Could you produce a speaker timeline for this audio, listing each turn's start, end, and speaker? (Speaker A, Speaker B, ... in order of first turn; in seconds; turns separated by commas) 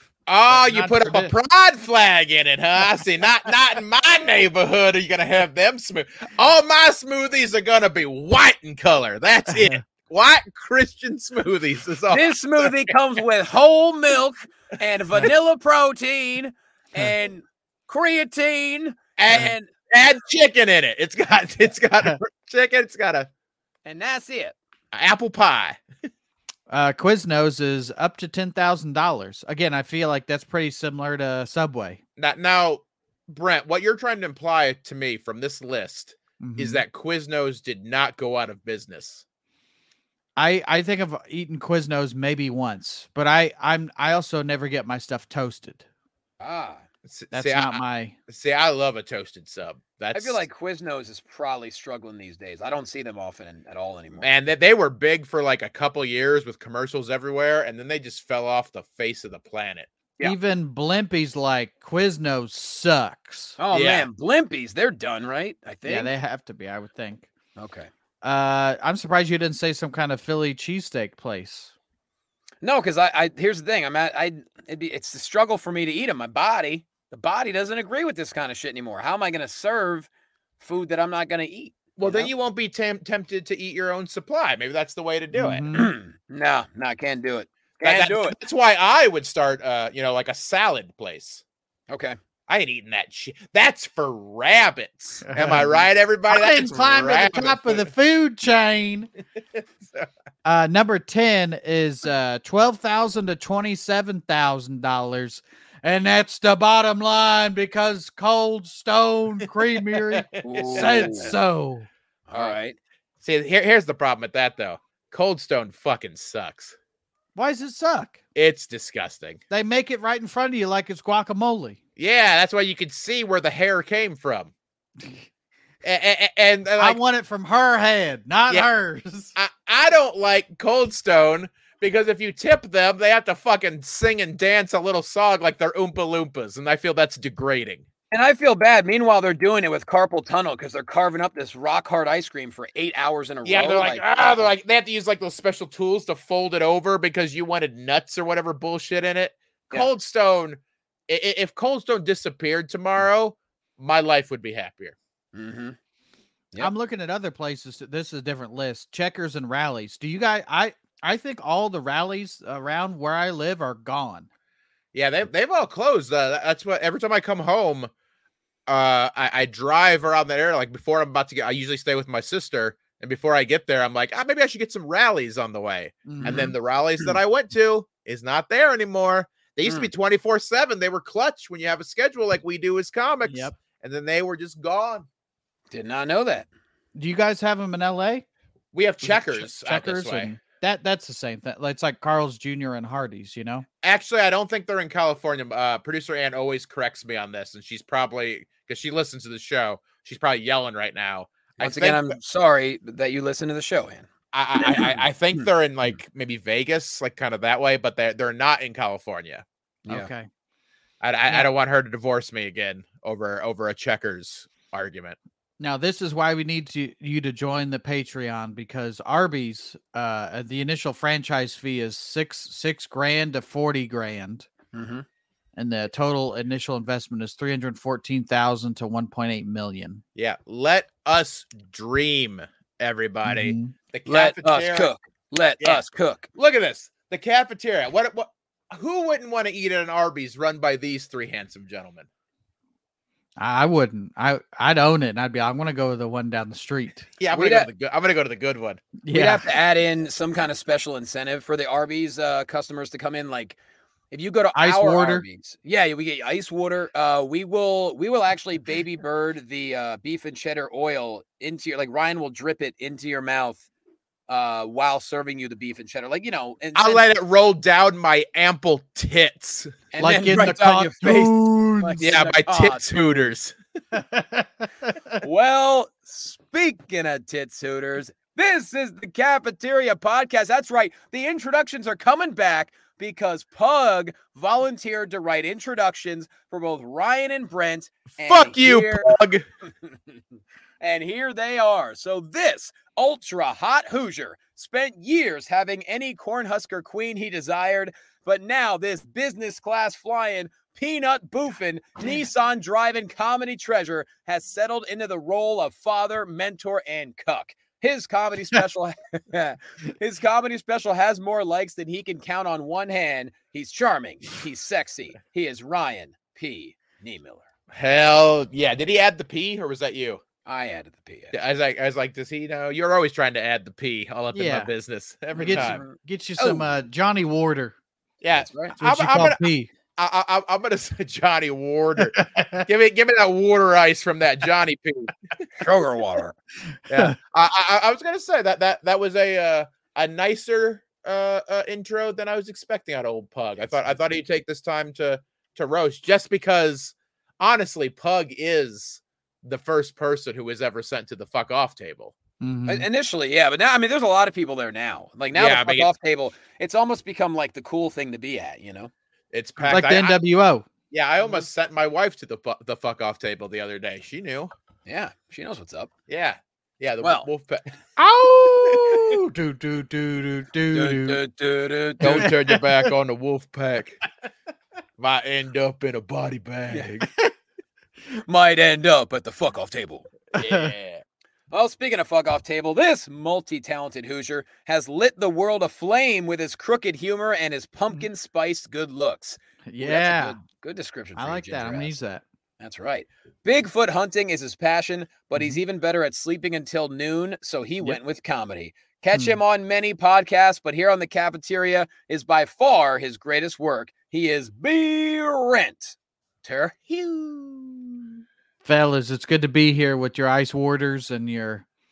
Speaker A: 0.3-12.9, Speaker B: 0.5-1.3, Speaker B: 9.5-9.8, Speaker C: 12.1-19.7, Speaker A: 19.2-23.3, Speaker C: 23.8-24.5, Speaker A: 24.9-25.8, Speaker B: 26.7-32.0, Speaker A: 32.2-39.2, Speaker B: 36.4-36.8, Speaker B: 40.4-45.8, Speaker C: 46.4-46.8, Speaker A: 47.0-50.4, Speaker B: 47.3-48.1, Speaker C: 50.1-54.3, Speaker A: 54.2-59.9, Speaker B: 60.2-63.6, Speaker C: 63.6-66.1, Speaker A: 63.7-64.1, Speaker B: 65.8-67.3, Speaker C: 67.5-67.9, Speaker B: 68.2-71.7, Speaker C: 72.6-80.1, Speaker C: 80.6-82.3, Speaker A: 82.0-85.7, Speaker B: 85.3-85.9, Speaker C: 85.7-88.4, Speaker A: 87.8-91.4, Speaker C: 91.9-92.2, Speaker A: 92.5-97.9, Speaker B: 95.2-99.1, Speaker A: 99.5-100.1, Speaker B: 100.4-111.9, Speaker A: 109.8-111.3, Speaker C: 110.4-111.3, Speaker C: 112.3-112.8, Speaker A: 113.2-116.8, Speaker B: 117.3-118.2, Speaker A: 118.3-119.4, Speaker B: 119.5-121.8, Speaker A: 122.0-124.5, Speaker A: 125.8-127.0, Speaker B: 126.8-129.3, Speaker A: 129.3-137.8, Speaker C: 138.1-144.5, Speaker A: 143.4-154.9, Speaker C: 155.3-155.8, Speaker B: 156.6-164.3, Speaker A: 164.9-167.9, Speaker A: 168.7-185.1, Speaker B: 176.1-176.5, Speaker C: 176.2-177.1, Speaker C: 179.6-179.9, Speaker B: 183.2-183.5, Speaker C: 185.7-186.5, Speaker B: 186.9-188.2, Speaker A: 188.7-190.3, Speaker B: 189.0-193.6, Speaker A: 193.8-202.2, Speaker C: 201.6-204.1, Speaker A: 204.3-209.4, Speaker C: 204.6-205.4, Speaker C: 209.8-210.1, Speaker B: 209.9-210.3, Speaker A: 211.0-215.2, Speaker B: 215.6-224.5, Speaker C: 224.7-225.0, Speaker B: 225.6-230.0, Speaker A: 230.2-234.9, Speaker B: 233.2-233.7, Speaker C: 234.1-236.3, Speaker A: 236.3-242.1, Speaker B: 243.4-247.1, Speaker A: 247.2-248.8, Speaker C: 247.3-247.7, Speaker B: 249.0-249.5, Speaker C: 249.1-253.6, Speaker C: 254.1-263.6, Speaker B: 254.5-255.2, Speaker C: 264.3-267.0, Speaker A: 266.7-269.8, Speaker C: 269.9-273.3, Speaker B: 270.0-272.1, Speaker A: 272.0-273.5, Speaker B: 273.9-275.2, Speaker C: 275.2-289.1, Speaker A: 288.2-289.4, Speaker C: 290.8-317.4, Speaker A: 317.7-320.2, Speaker C: 320.4-321.3, Speaker A: 321.3-325.8, Speaker B: 324.3-324.7, Speaker C: 325.4-326.7, Speaker B: 325.4-327.8, Speaker A: 328.2-329.4, Speaker C: 328.3-328.8, Speaker B: 328.8-329.7, Speaker A: 330.0-335.1, Speaker B: 332.1-332.6, Speaker C: 335.6-336.3, Speaker A: 336.9-352.1, Speaker B: 352.4-352.9, Speaker C: 352.7-358.9, Speaker A: 355.3-355.9, Speaker A: 359.3-360.1, Speaker B: 359.6-360.7, Speaker A: 360.9-364.5, Speaker C: 364.9-365.9, Speaker A: 366.1-367.6, Speaker C: 367.0-367.3, Speaker B: 368.0-371.2, Speaker A: 368.3-369.2, Speaker C: 370.7-372.3, Speaker A: 372.0-374.0, Speaker B: 372.0-372.9, Speaker A: 375.0-377.1, Speaker C: 378.3-380.1, Speaker A: 380.3-381.0, Speaker B: 380.4-380.7, Speaker C: 381.5-392.0, Speaker B: 389.7-390.4, Speaker B: 391.1-392.2, Speaker C: 392.6-408.1, Speaker B: 399.1-399.4, Speaker B: 408.6-411.6